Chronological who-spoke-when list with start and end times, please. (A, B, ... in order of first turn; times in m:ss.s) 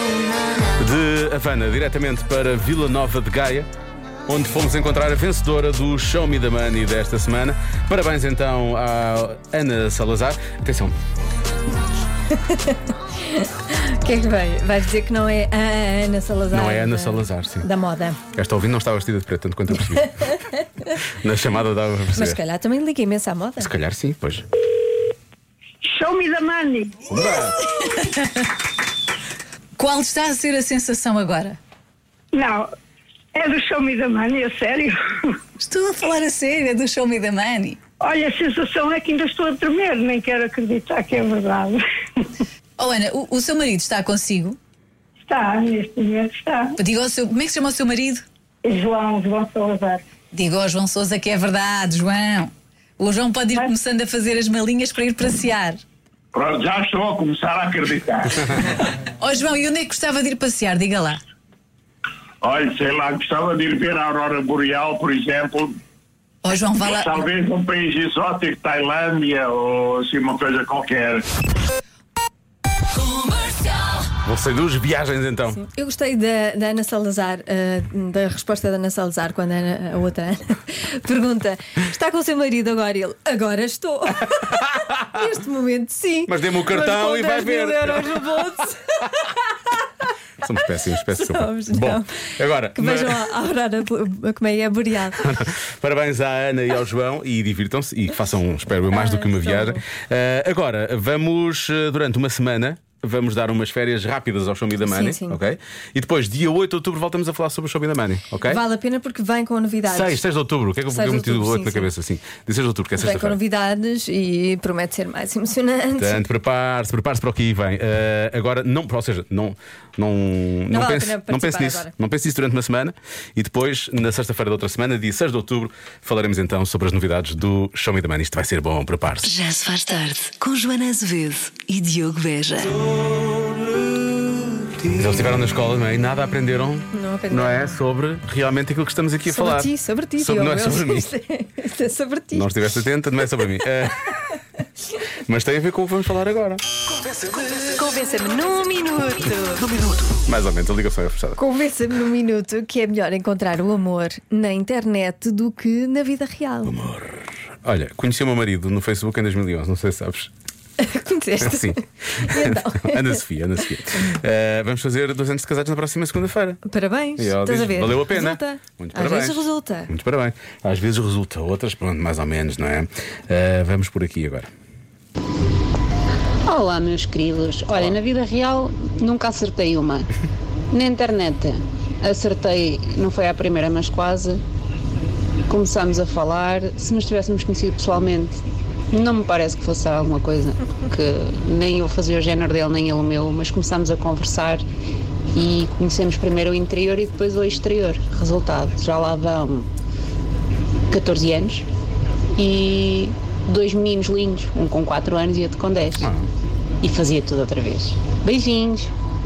0:00.8-0:03.7 A
0:04.3-0:11.0 A
0:12.3-0:18.2 B
0:16.5-0:17.7 A
0:18.3-0:20.4 A
0:20.2-0:20.9 B
0:21.1-0:22.4 A
0:22.1-0:23.7 B
0:23.6-0:24.4 A
0:25.9-0:27.0 C
0:27.1-0:27.6 A
0:29.8-0:31.6 D
0:32.3-0:32.7 C
0:33.3-0:35.3 C
0:35.6-0:37.8 D
0:38.0-0:41.8 C
0:42.8-0:44.6 D
0:45.3-0:46.8 C
0:46.8-0:48.2 D
0:48.6-0:50.0 C
0:50.3-0:55.8 D
0:56.3-0:58.6 E
0:59.2-1:01.2 D
1:02.4-1:05.8 E
1:06.4-1:07.3 D
1:06.8-1:11.3 E
1:14.2-1:15.6 A
1:15.6-1:24.5 B
1:24.3-1:25.1 A
1:25.1-1:29.3 B
1:26.3-1:28.4 A
1:30.4-1:33.3 A
1:31.1-1:35.2 B
1:35.2-1:48.6 A
1:38.9-1:39.8 B
1:44.8-1:45.4 B
1:48.4-1:50.2 B
1:49.9-1:53.4 A
1:50.9-1:51.9 B
1:53.0-1:56.2 B
1:56.0-2:09.3 A
2:00.7-2:01.9 B
2:09.2-2:12.8 F
2:14.9-2:21.1 A
2:16.9-2:17.8 B
2:19.2-2:22.5 B
2:22.3-2:24.2 A
2:25.3-2:26.6 A
2:27.0-2:30.0 B
2:30.2-2:31.4 A
2:31.4-2:36.7 B
2:36.6-2:40.3 A
2:40.8-2:43.2 B
2:41.4-2:46.6 A
2:43.9-2:44.2 B
2:46.6-2:49.9 B
2:47.2-2:54.5 A
2:56.5-3:00.1 G
3:00.7-3:04.4 G
3:05.5-3:08.4 G
3:08.9-3:14.6 G
3:15.3-3:19.7 G
3:20.9-3:21.7 G
3:22.4-3:26.1 G
3:26.0-3:26.3 A
3:26.8-3:28.9 G